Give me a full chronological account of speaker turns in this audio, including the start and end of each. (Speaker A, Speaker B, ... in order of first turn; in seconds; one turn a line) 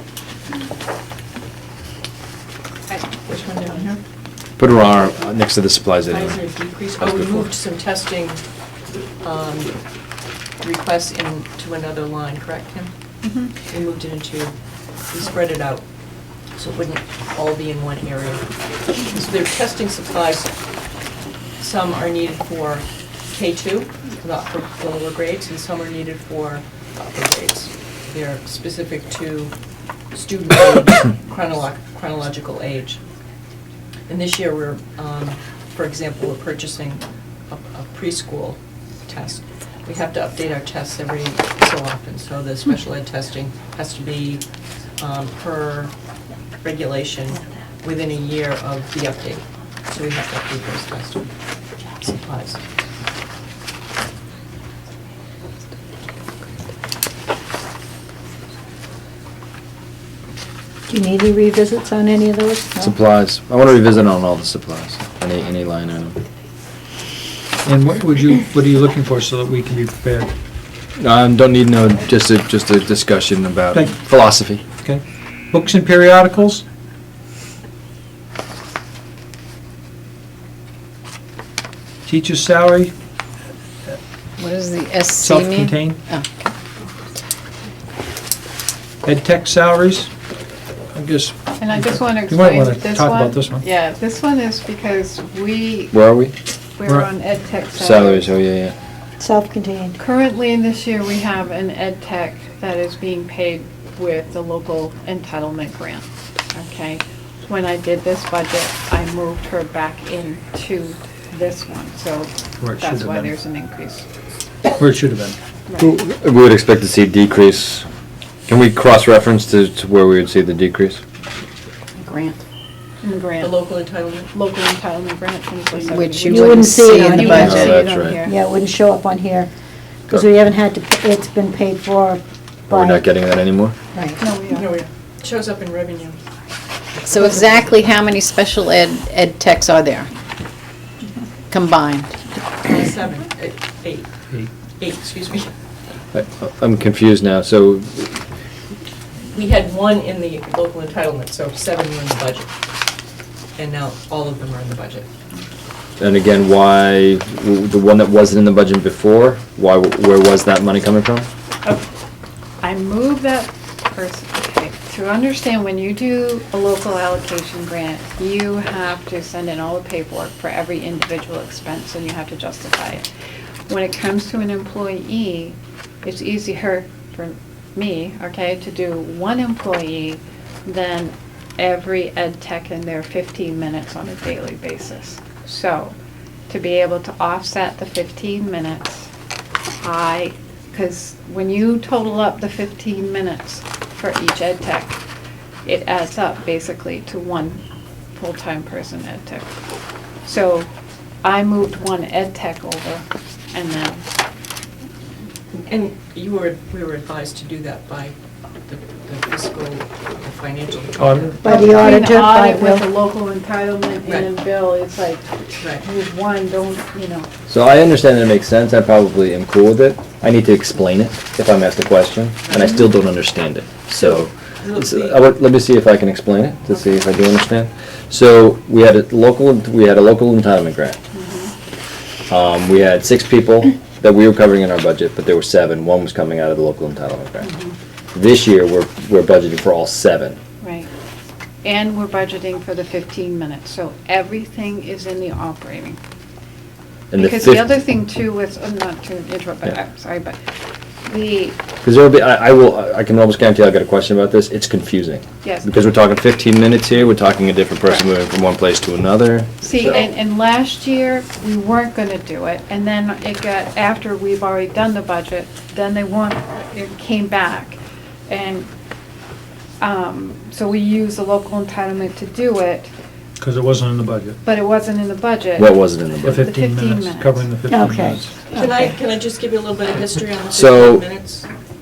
Speaker A: 3.2-4.0
Speaker B: 4.6-6.4
Speaker A: 6.1-8.4
Speaker B: 7.0-7.5
Speaker A: 9.2-9.7
Speaker A: 10.6-12.9
Speaker C: 13.2-13.5
Speaker A: 13.6-14.5
Speaker A: 15.1-15.8
Speaker A: 16.6-18.4
Speaker A: 19.0-20.5
Speaker A: 21.6-29.5
Speaker A: 30.1-33.0
Speaker A: 34.1-44.4
Speaker A: 45.0-45.9
Speaker A: 46.6-51.3
Speaker A: 52.0-52.6
Speaker D: 60.9-62.9
Speaker B: 62.8-66.2
Speaker E: 67.6-70.3
Speaker B: 71.0-74.6
Speaker E: 73.7-74.0
Speaker E: 74.8-76.6
Speaker E: 82.0-82.9
Speaker F: 84.4-86.5
Speaker E: 85.2-86.0
Speaker E: 89.0-90.1
Speaker E: 90.9-93.6
Speaker C: 91.6-95.9
Speaker B: 95.9-96.3
Speaker C: 96.8-98.3
Speaker E: 96.8-97.1
Speaker B: 97.7-98.7
Speaker D: 99.2-100.0
Speaker C: 100.0-114.1
Speaker E: 112.6-113.3
Speaker E: 114.8-115.4
Speaker B: 115.8-117.9
Speaker B: 118.5-121.0
Speaker F: 122.0-122.4
Speaker C: 123.0-123.6
Speaker A: 123.4-124.3
Speaker C: 124.3-128.3
Speaker F: 125.9-127.8
Speaker D: 126.3-127.5
Speaker B: 127.2-128.2
Speaker D: 128.2-129.5
Speaker D: 130.1-133.0
Speaker B: 132.7-133.7
Speaker C: 134.2-134.7
Speaker A: 134.5-136.2
Speaker F: 137.0-140.1
Speaker A: 137.1-137.7
Speaker F: 141.5-142.2
Speaker A: 142.6-144.1
Speaker A: 144.8-145.5
Speaker B: 146.1-148.2
Speaker A: 149.3-152.5
Speaker A: 153.6-155.1
Speaker B: 156.0-161.3
Speaker C: 162.6-173.1
Speaker C: 173.7-185.9
Speaker C: 186.5-189.1
Speaker C: 189.8-195.0
Speaker C: 195.6-197.6
Speaker C: 198.1-199.5
Speaker C: 200.2-200.7
Speaker C: 201.2-204.0
Speaker A: 205.6-208.1
Speaker A: 208.7-211.4
Speaker E: 211.0-211.4
Speaker D: 211.4-212.8
Speaker C: 211.4-217.3
Speaker A: 214.0-214.3
Speaker A: 215.6-215.8
Speaker B: 217.5-231.0
Speaker A: 222.4-222.7
Speaker A: 224.0-225.2
Speaker C: 231.1-231.5
Speaker B: 232.3-237.5
Speaker C: 237.4-237.7
Speaker B: 238.1-240.4
Speaker C: 240.6-240.9
Speaker C: 241.6-246.0
Speaker B: 247.1-247.8
Speaker C: 247.2-250.4
Speaker C: 251.0-251.6
Speaker B: 251.8-260.1
Speaker C: 255.4-255.7
Speaker C: 259.6-268.7
Speaker C: 269.8-272.9
Speaker E: 273.4-274.4
Speaker C: 274.4-277.5
Speaker B: 275.6-276.5
Speaker E: 276.2-278.3
Speaker D: 277.7-278.2
Speaker C: 278.5-278.8
Speaker A: 278.5-281.5
Speaker B: 280.5-281.1